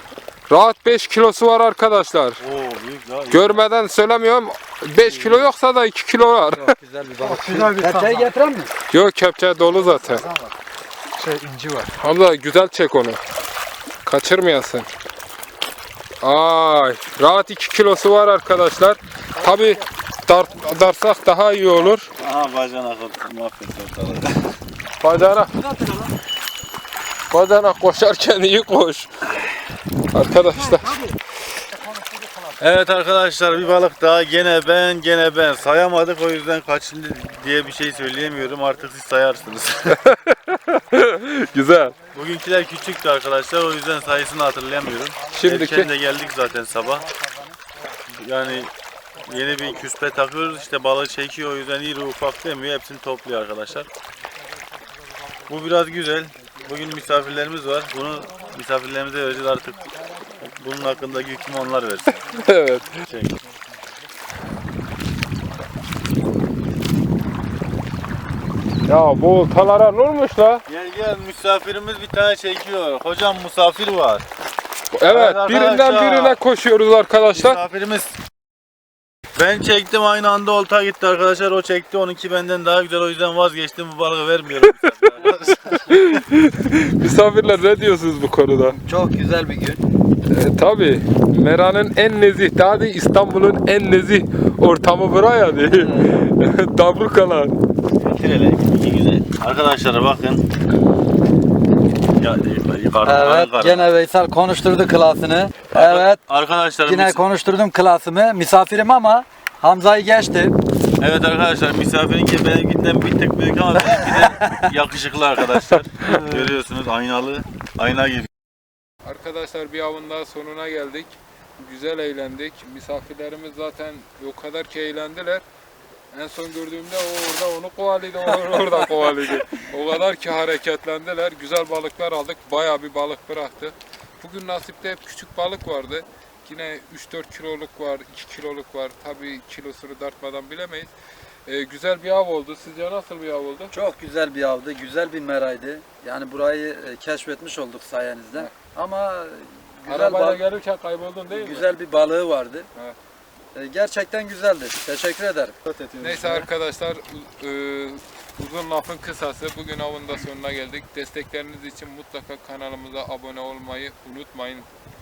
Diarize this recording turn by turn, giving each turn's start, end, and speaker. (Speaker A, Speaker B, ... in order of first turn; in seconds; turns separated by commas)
Speaker A: 0.5-2.4, Speaker B: 2.4-3.6, Speaker A: 3.3-6.7, Speaker C: 5.0-5.4, Speaker C: 6.5-8.7, Speaker D: 7.2-8.3, Speaker A: 8.9-10.2, Speaker D: 9.7-10.5, Speaker D: 11.1-11.9, Speaker A: 12.0-13.2, Speaker A: 14.0-14.9, Speaker A: 16.2-22.1, Speaker D: 19.4-19.8, Speaker B: 22.2-24.4, Speaker A: 25.0-25.5, Speaker D: 25.6-26.1, Speaker A: 27.3-29.1, Speaker A: 30.1-31.0, Speaker D: 30.4-31.2, Speaker D: 31.7-32.6, Speaker B: 32.6-40.0, Speaker D: 37.7-40.0, Speaker A: 39.8-42.0, Speaker D: 40.9-43.0, Speaker B: 42.1-47.1, Speaker D: 45.2-45.6, Speaker A: 45.3-45.9, Speaker D: 46.4-48.0, Speaker B: 48.1-48.7, Speaker D: 49.2-49.9, Speaker B: 49.2-53.9, Speaker D: 54.3-55.6, Speaker B: 55.5-59.9, Speaker D: 56.4-57.2, Speaker D: 58.0-58.6, Speaker D: 59.5-64.0, Speaker B: 60.4-62.2, Speaker A: 62.2-62.9, Speaker B: 63.1-63.3, Speaker A: 68.8-70.6, Speaker B: 70.7-74.2, Speaker A: 74.9-77.6, Speaker B: 75.1-76.4, Speaker B: 77.3-78.1, Speaker B: 79.3-86.0, Speaker A: 84.6-85.1, Speaker A: 85.9-88.8, Speaker C: 88.8-89.8, Speaker A: 90.3-97.5, Speaker C: 95.6-96.2, Speaker B: 98.0-100.4, Speaker B: 102.1-103.9, Speaker C: 103.0-106.2, Speaker B: 105.7-107.2, Speaker C: 106.8-110.6, Speaker B: 111.0-118.3, Speaker C: 113.8-114.7, Speaker A: 119.0-125.4, Speaker A: 126.1-140.9, Speaker A: 141.4-143.7, Speaker C: 143.7-150.4, Speaker A: 149.9-151.7, Speaker C: 151.3-152.7, Speaker C: 153.5-155.6, Speaker D: 155.6-156.4, Speaker A: 156.0-164.7